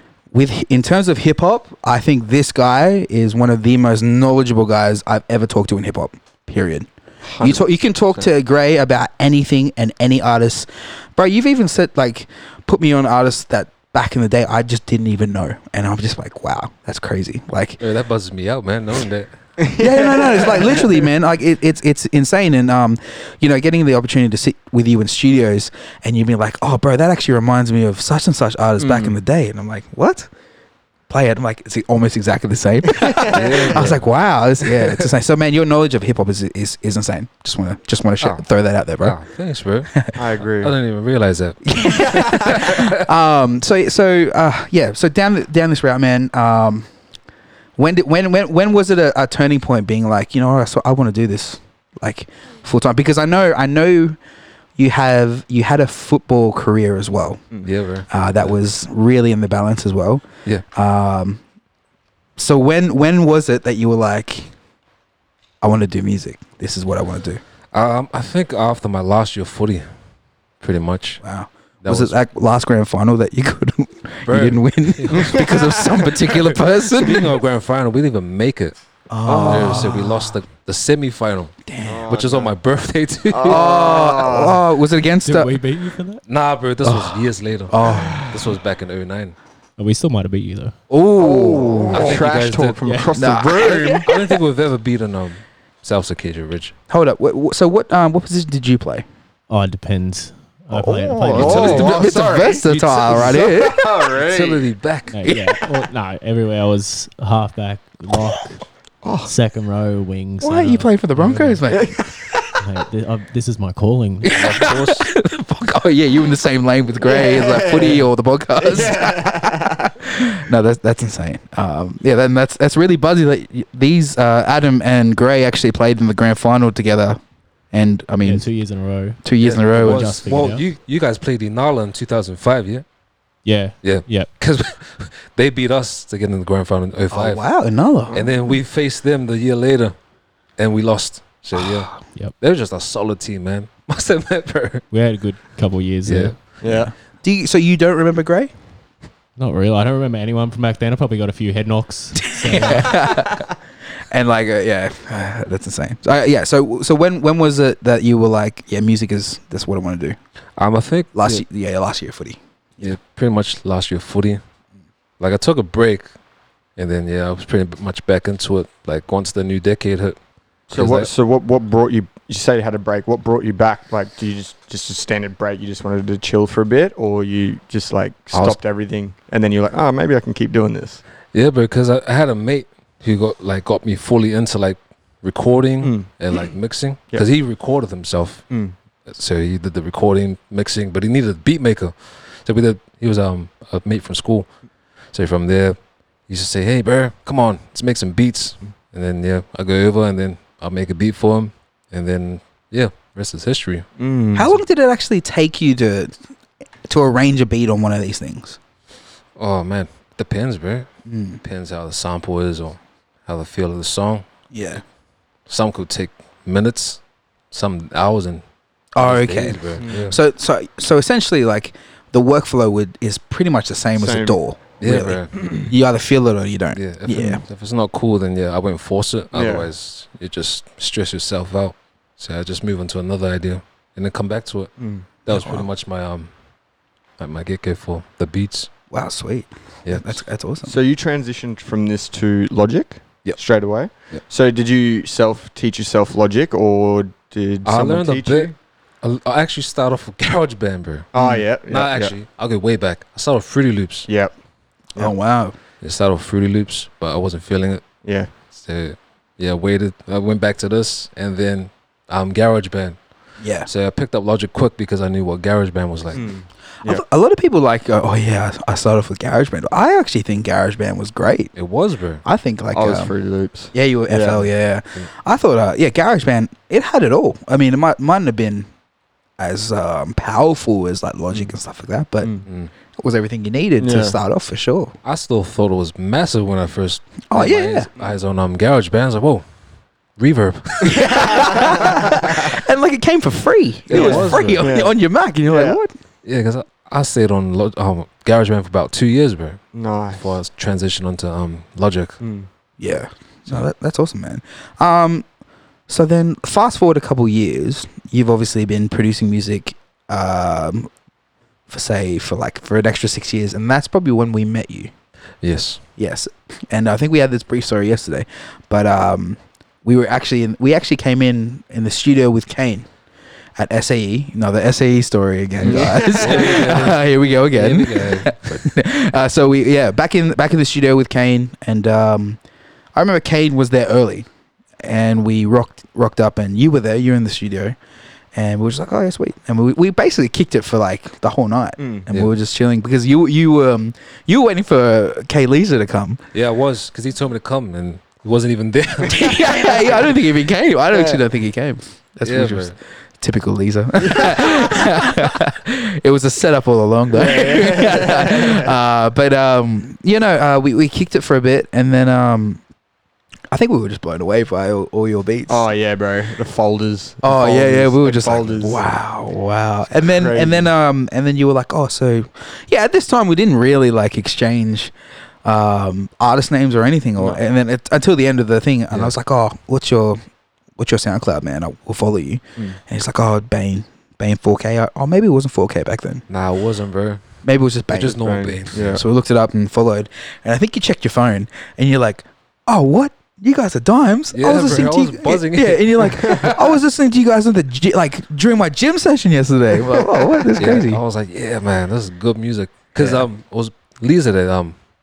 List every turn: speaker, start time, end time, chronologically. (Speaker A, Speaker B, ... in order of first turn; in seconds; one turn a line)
Speaker A: 0.3-6.9
Speaker B: 7.2-7.6
Speaker A: 7.4-17.8
Speaker C: 17.8-19.3
Speaker B: 19.6-21.1
Speaker A: 19.8-30.3
Speaker B: 28.8-29.1
Speaker A: 31.1-39.2
Speaker B: 33.0-33.9
Speaker C: 33.3-34.0
Speaker C: 39.0-42.9
Speaker B: 40.1-40.7
Speaker A: 41.6-46.9
Speaker A: 47.8-54.2
Speaker A: 54.8-57.4
Speaker C: 57.6-58.5
Speaker A: 58.1-61.4
Speaker A: 62.4-64.5
Speaker A: 65.6-67.4
Speaker C: 67.7-69.9
Speaker C: 70.6-71.2
Speaker A: 71.2-77.3
Speaker C: 71.8-72.2
Speaker C: 74.2-81.5
Speaker B: 75.1-76.0
Speaker A: 79.1-80.3
Speaker B: 79.3-79.9
Speaker A: 81.7-82.0
Speaker B: 81.8-82.5
Speaker C: 82.0-83.8
Speaker B: 83.3-84.6
Speaker A: 83.4-85.6
Speaker D: 85.2-86.2
Speaker C: 86.2-89.3
Speaker A: 86.8-88.3
Speaker B: 87.8-88.5
Speaker D: 89.8-90.7
Speaker A: 90.9-92.2
Speaker B: 91.2-94.4
Speaker C: 91.9-92.9
Speaker D: 92.8-93.1
Speaker A: 93.1-94.1
Speaker C: 93.5-96.7
Speaker A: 96.9-99.0
Speaker D: 99.5-102.0
Speaker A: 100.7-103.9
Speaker B: 101.2-104.7
Speaker C: 101.3-103.5
Speaker D: 102.7-103.4
Speaker C: 104.1-105.5
Speaker D: 105.1-108.7
Speaker A: 105.3-105.5
Speaker B: 109.0-109.3
Speaker D: 109.2-111.7
Speaker A: 110.4-112.1
Speaker B: 111.7-112.3
Speaker D: 112.6-114.4
Speaker C: 114.3-115.1
Speaker A: 114.3-127.2
Speaker B: 117.0-119.9
Speaker A: 127.7-128.6
Speaker D: 128.2-130.6
Speaker A: 129.2-130.2
Speaker C: 129.4-132.8
Speaker D: 133.4-134.3
Speaker C: 133.8-137.4
Speaker A: 137.1-138.2
Speaker B: 138.1-138.4
Speaker C: 138.1-139.9
Speaker C: 140.6-144.8
Speaker A: 141.6-142.0
Speaker D: 144.9-146.4
Speaker C: 146.0-146.4
Speaker B: 146.6-146.9
Speaker A: 146.6-148.5
Speaker D: 149.3-153.1
Speaker A: 152.3-153.5
Speaker A: 154.1-160.2
Speaker C: 160.6-161.4
Speaker A: 161.1-163.0
Speaker C: 162.8-164.4
Speaker C: 165.2-166.1
Speaker C: 166.8-170.2
Speaker C: 170.7-171.1
Speaker B: 170.7-181.0
Speaker C: 178.3-178.6
Speaker C: 181.3-188.5
Speaker B: 185.8-186.1
Speaker B: 188.5-188.7
Speaker C: 189.1-194.5
Speaker C: 195.1-203.8
Speaker B: 204.0-204.6
Speaker A: 204.3-206.1
Speaker A: 206.9-208.6
Speaker C: 209.3-210.9
Speaker A: 211.1-211.4
Speaker C: 211.4-214.2
Speaker A: 214.5-214.8
Speaker C: 215.5-218.4
Speaker A: 218.9-227.4
Speaker C: 219.0-220.2
Speaker B: 219.8-220.1
Speaker B: 223.9-224.4
Speaker C: 224.8-225.3
Speaker C: 226.7-236.3
Speaker B: 229.3-229.7
Speaker B: 234.8-235.1
Speaker A: 235.3-235.7
Speaker C: 237.2-238.7
Speaker A: 238.9-240.7
Speaker C: 239.8-240.2
Speaker B: 240.7-248.5
Speaker C: 243.2-244.2
Speaker C: 247.6-254.1
Speaker B: 251.1-252.1
Speaker A: 251.2-251.4
Speaker B: 254.1-254.3
Speaker A: 254.9-255.6
Speaker C: 255.8-257.9
Speaker B: 258.0-258.3
Speaker C: 258.5-263.0
Speaker A: 263.4-263.7
Speaker C: 263.6-266.3
Speaker B: 266.1-267.0
Speaker A: 266.8-271.5
Speaker C: 271.5-272.2
Speaker A: 272.2-273.1
Speaker B: 272.7-274.5
Speaker A: 273.7-278.7
Speaker A: 279.4-282.3
Speaker B: 282.2-282.4
Speaker C: 282.4-282.7
Speaker A: 283.0-284.9
Speaker B: 283.8-284.2
Speaker C: 285.0-289.4
Speaker A: 287.3-287.9
Speaker C: 290.2-291.1
Speaker A: 290.9-295.9
Speaker B: 291.0-291.7
Speaker C: 293.9-294.6
Speaker B: 293.9-295.8
Speaker C: 296.2-302.2
Speaker B: 299.7-300.3
Speaker B: 302.2-302.5
Speaker A: 302.8-305.2
Speaker A: 305.9-310.9
Speaker A: 311.7-314.9
Speaker C: 315.4-315.8
Speaker A: 316.0-322.9
Speaker A: 323.6-332.4
Speaker C: 325.6-328.6
Speaker B: 325.6-326.8
Speaker A: 332.9-334.3
Speaker A: 334.8-337.8
Speaker A: 338.3-346.2
Speaker B: 341.8-342.1
Speaker C: 346.3-350.1
Speaker A: 349.1-362.6
Speaker B: 350.9-351.2
Speaker C: 352.2-352.8
Speaker B: 354.0-354.8
Speaker B: 357.1-358.7
Speaker A: 363.5-365.6
Speaker B: 365.5-368.8
Speaker A: 367.2-374.9
Speaker B: 370.0-370.7
Speaker A: 375.4-380.2
Speaker C: 378.9-379.1
Speaker A: 380.8-386.2
Speaker C: 386.3-387.2
Speaker A: 387.4-401.0
Speaker C: 387.9-389.0
Speaker B: 388.2-389.0
Speaker C: 394.3-396.6
Speaker B: 399.9-400.6
Speaker C: 400.6-404.8
Speaker A: 403.0-403.2